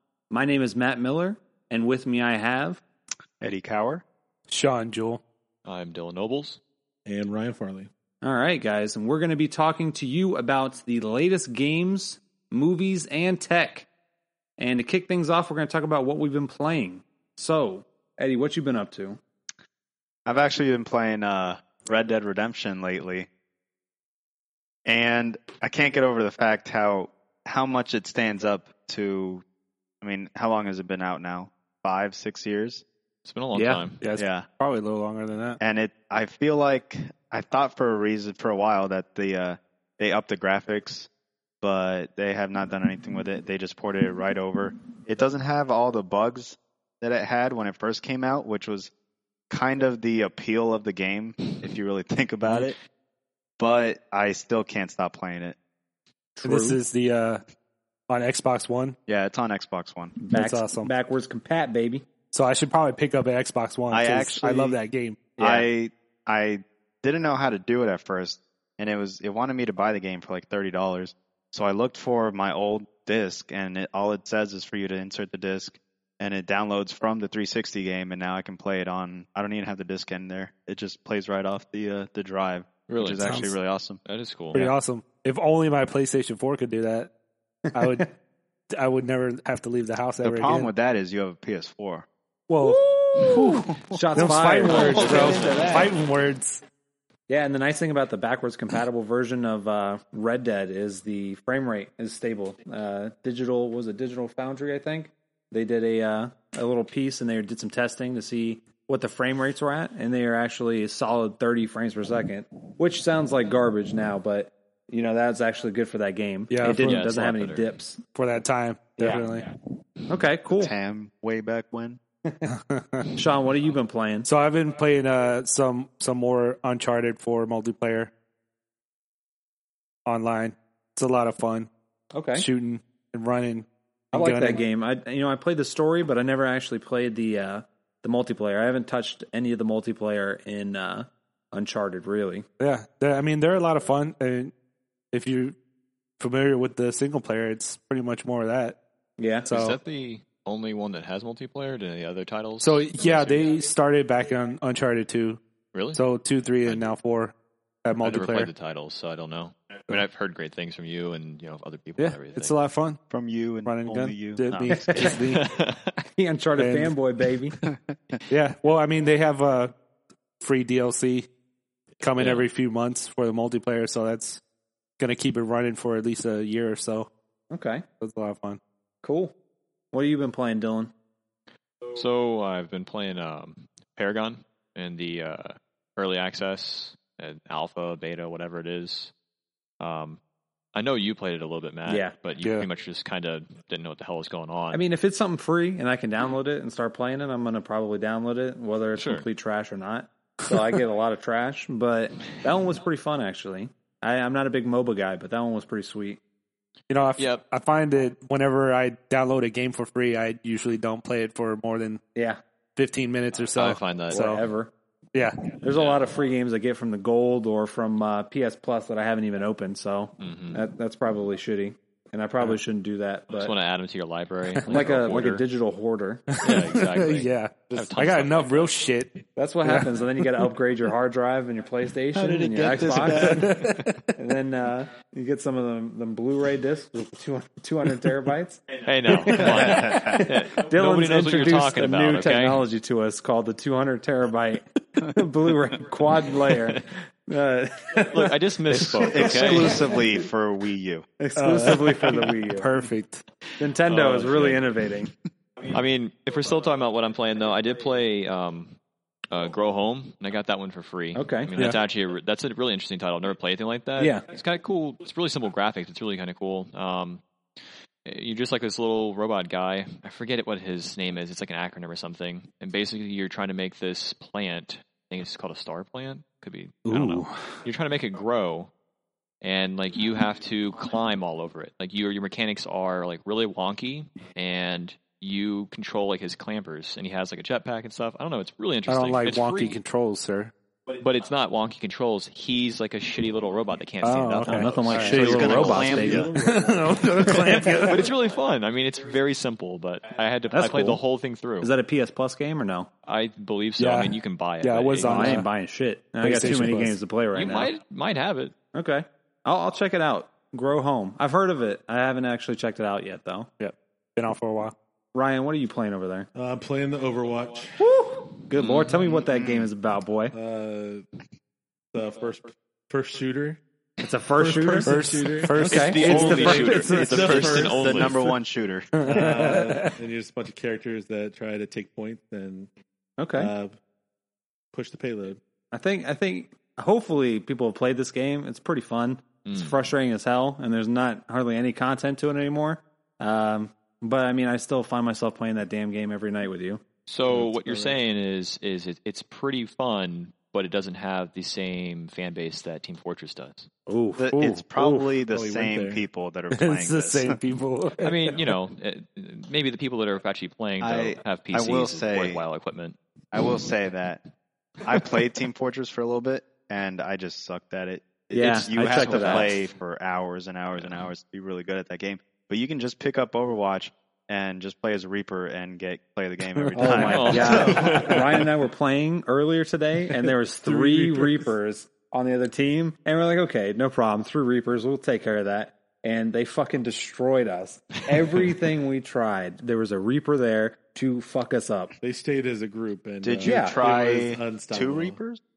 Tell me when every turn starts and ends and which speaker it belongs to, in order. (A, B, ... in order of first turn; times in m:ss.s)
0:00.3-0:02.8 A
0:03.4-0:04.0 B
0:04.5-0:05.2 C
0:05.6-0:06.6 D
0:07.1-0:07.9 E
0:08.2-0:13.9 A
0:14.6-0:19.2 A
0:20.3-0:23.3 B
0:24.9-0:29.4 B
0:30.0-0:32.8 B
0:33.2-0:34.0 D
0:33.5-0:33.8 A
0:34.0-0:35.6 C
0:34.2-0:34.5 B
0:35.6-0:41.1 B
0:41.6-0:48.9 B
0:49.5-0:52.8 B
0:53.6-0:55.6 B
0:56.4-0:56.8 A
0:56.4-0:57.4 C
0:58.1-0:59.0 C
0:59.1-1:00.2 B
1:00.2-1:02.1 A
1:00.3-1:00.9 C
1:02.3-1:05.2 C
1:03.9-1:04.8 B
1:05.4-1:05.7 A
1:05.4-1:24.0 B
1:22.9-1:23.3 D
1:23.2-1:23.5 C
1:24.0-1:24.7 D
1:24.5-1:27.1 C
1:27.7-1:28.1 C
1:28.7-1:30.7 C
1:30.2-1:32.1 B
1:32.5-1:33.6 C
1:32.6-1:36.0 A
1:33.5-1:34.0 B
1:34.2-1:36.6 C
1:34.6-1:35.9 D
1:37.3-1:58.0 A
1:56.5-1:57.0 C
1:56.7-1:57.7 D
1:58.2-1:59.5 C
1:59.0-1:59.2 A
2:00.1-2:00.7 A
2:00.6-2:02.0 B
2:02.8-2:03.0 C
2:03.1-2:04.3 A
2:04.3-2:08.1 C
2:10.1-2:11.7 C
2:12.1-2:12.5 A
2:12.4-2:14.6 C
2:14.1-2:22.5 A
2:22.6-2:24.5 C
2:25.1-2:25.6 C
2:26.2-2:28.8 C
2:29.2-2:29.5 A
2:29.5-2:29.8 C
2:29.5-2:33.5 D
2:32.6-2:35.4 C
2:35.7-2:36.0 D
2:35.9-2:37.3 C
2:37.8-2:38.5 C
2:38.0-2:42.5 D
2:42.0-2:43.0 C
2:43.1-2:45.1 B
2:43.6-2:45.4 C
2:44.5-2:45.9 D
2:44.9-2:45.2 A
2:46.2-2:47.6 A
2:46.6-2:46.9 C
2:47.7-2:48.1 B
2:48.3-2:49.7 C
2:50.4-2:51.3 C
2:52.0-2:54.4 C
2:52.2-2:52.4 D
2:55.0-2:57.1 C
2:57.5-2:57.8 A
2:58.0-2:58.6 C
2:59.0-2:59.3 A
2:59.9-3:00.9 A
3:01.9-3:09.1 D
3:09.8-3:10.2 D
3:10.7-3:14.8 D
3:11.9-3:12.1 A
3:12.4-3:12.7 C
3:14.7-3:26.2 A
3:19.0-3:19.3 D
3:26.9-3:32.0 C
3:32.8-3:34.5 C
3:33.6-3:34.2 D
3:34.1-3:34.7 A
3:35.1-3:35.6 C
3:35.6-3:43.5 A
3:40.2-3:40.6 D
3:43.3-3:45.4 D
3:44.6-3:46.4 A
3:46.3-3:50.5 C
3:46.4-3:48.7 D
3:49.4-4:09.8 A
3:52.1-3:54.0 C
3:58.8-4:02.6 D
3:59.5-4:00.2 B
4:08.1-4:09.8 D
4:08.9-4:11.0 B
4:11.2-4:12.7 A
4:11.4-4:13.2 C
4:13.6-4:15.1 A
4:13.8-4:14.7 D
4:15.7-4:18.8 D
4:19.3-4:27.2 D
4:21.2-4:21.5 A
4:24.0-4:24.2 A
4:28.0-4:38.7 D
4:36.9-4:37.4 A
4:39.4-4:49.8 D
4:48.9-4:50.5 C
4:51.0-4:56.1 D
4:54.0-4:55.4 C
4:54.5-4:56.4 A
4:55.0-4:56.3 B
4:55.6-4:57.8 E
4:56.1-4:58.1 C
4:57.2-5:01.7 D
5:00.5-5:01.0 A
5:01.6-5:02.9 A
5:03.1-5:05.4 D
5:03.8-5:05.5 C
5:05.0-5:07.7 A
5:06.2-5:07.0 C
5:07.3-5:08.5 D
5:08.7-5:13.5 A
5:13.6-5:14.7 C
5:15.1-5:16.3 A
5:16.3-5:17.9 E
5:17.8-5:20.3 A
5:18.6-5:19.0 D
5:19.2-5:19.7 B
5:20.3-5:21.1 E
5:21.9-5:23.6 E
5:24.0-5:25.0 A
5:24.3-5:28.2 E
5:24.8-5:26.7 C
5:25.6-5:27.7 A
5:25.7-5:28.2 D
5:27.6-5:28.9 B
5:29.0-5:30.0 C
5:29.0-5:32.7 E
5:29.1-5:29.6 A
5:33.2-5:33.5 A
5:33.3-5:33.8 E
5:34.7-5:35.4 E
5:35.7-5:46.8 A
5:39.5-5:39.8 D
5:47.1-5:53.7 D
5:47.3-5:48.0 E
5:53.9-5:55.0 A
5:54.2-5:57.4 B
5:55.3-5:56.0 E
5:56.5-5:58.4 C
5:58.0-6:03.0 D
6:00.8-6:02.4 B
6:03.3-6:04.2 B
6:04.8-6:18.1 B
6:08.3-6:09.5 A
6:08.8-6:09.6 D
6:10.8-6:11.0 D
6:16.6-6:17.1 C
6:16.8-6:31.9 A
6:17.0-6:18.5 D
6:20.6-6:21.5 E
6:32.0-6:35.2 E
6:33.2-6:35.4 B
6:33.4-6:33.8 A